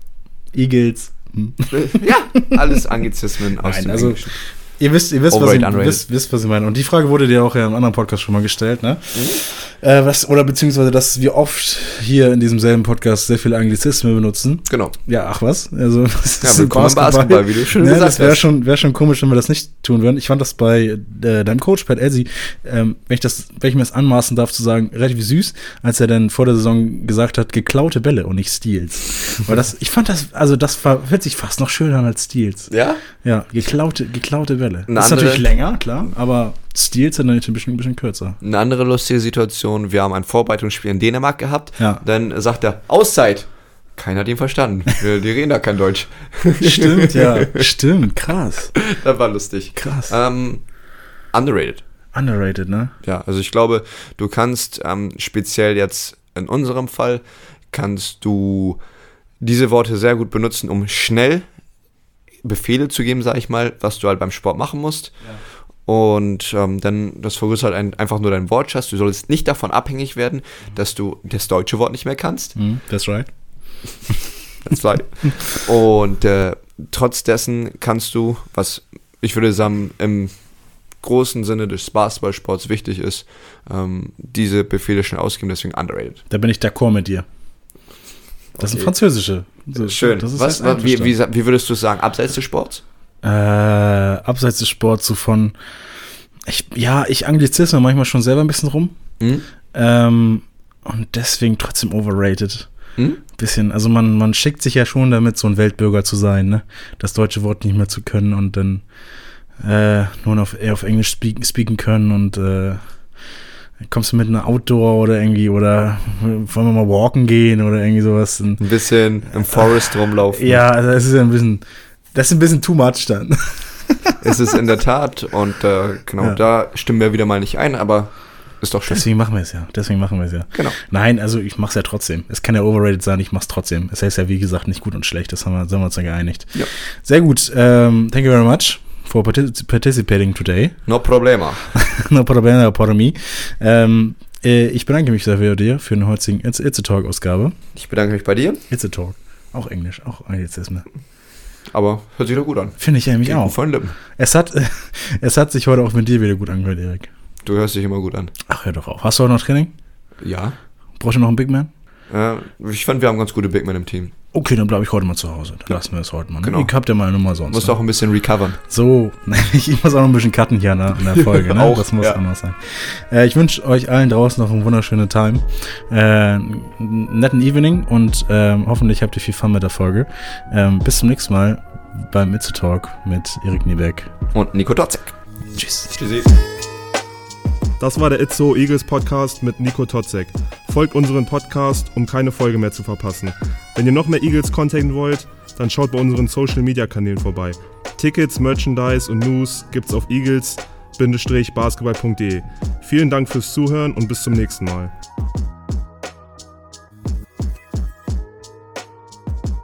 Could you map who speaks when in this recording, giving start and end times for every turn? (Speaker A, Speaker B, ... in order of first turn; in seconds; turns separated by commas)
Speaker A: 0.5-2.8, Speaker B: 1.7-4.3, Speaker A: 3.6-32.7, Speaker B: 5.3-6.0, Speaker B: 9.1-9.4, Speaker B: 14.7-14.9, Speaker B: 16.4-18.4, Speaker B: 32.7-33.0, Speaker A: 33.2-38.4, Speaker B: 34.9-35.5, Speaker B: 38.4-47.7, Speaker A: 46.6-48.8, Speaker B: 48.8-50.6, Speaker A: 49.8-50.1, Speaker B: 51.3-51.8, Speaker A: 52.1-52.9, Speaker B: 53.0-58.8, Speaker B: 59.4-61.5, Speaker B: 62.4-65.2, Speaker B: 65.9-72.5, Speaker A: 72.5-73.3, Speaker B: 74.6-80.3, Speaker B: 81.0-86.2, Speaker A: 86.3-87.3, Speaker B: 88.6-88.9, Speaker A: 88.6-91.1, Speaker B: 89.8-92.8, Speaker A: 93.2-95.5, Speaker A: 96.5-98.9, Speaker B: 99.2-99.5, Speaker A: 99.7-102.7, Speaker A: 103.4-108.8, Speaker A: 109.6-112.8, Speaker A: 113.8-118.6, Speaker B: 118.6-120.6, Speaker A: 120.3-121.6, Speaker A: 122.1-124.2, Speaker B: 124.2-129.0, Speaker A: 128.9-140.8, Speaker B: 140.9-141.7, Speaker A: 141.7-147.6, Speaker B: 147.8-148.6, Speaker A: 148.7-150.9, Speaker B: 151.7-154.0, Speaker A: 152.8-157.1, Speaker B: 157.4-158.3, Speaker A: 158.5-159.7, Speaker B: 160.2-160.6, Speaker A: 161.0-161.7, Speaker B: 162.1-164.1, Speaker A: 164.3-167.8, Speaker B: 166.4-166.7, Speaker B: 167.5-168.6, Speaker A: 168.7-184.1, Speaker B: 171.1-172.2, Speaker B: 184.3-185.2, Speaker A: 185.6-185.9, Speaker B: 185.9-186.3, Speaker C: 187.8-204.9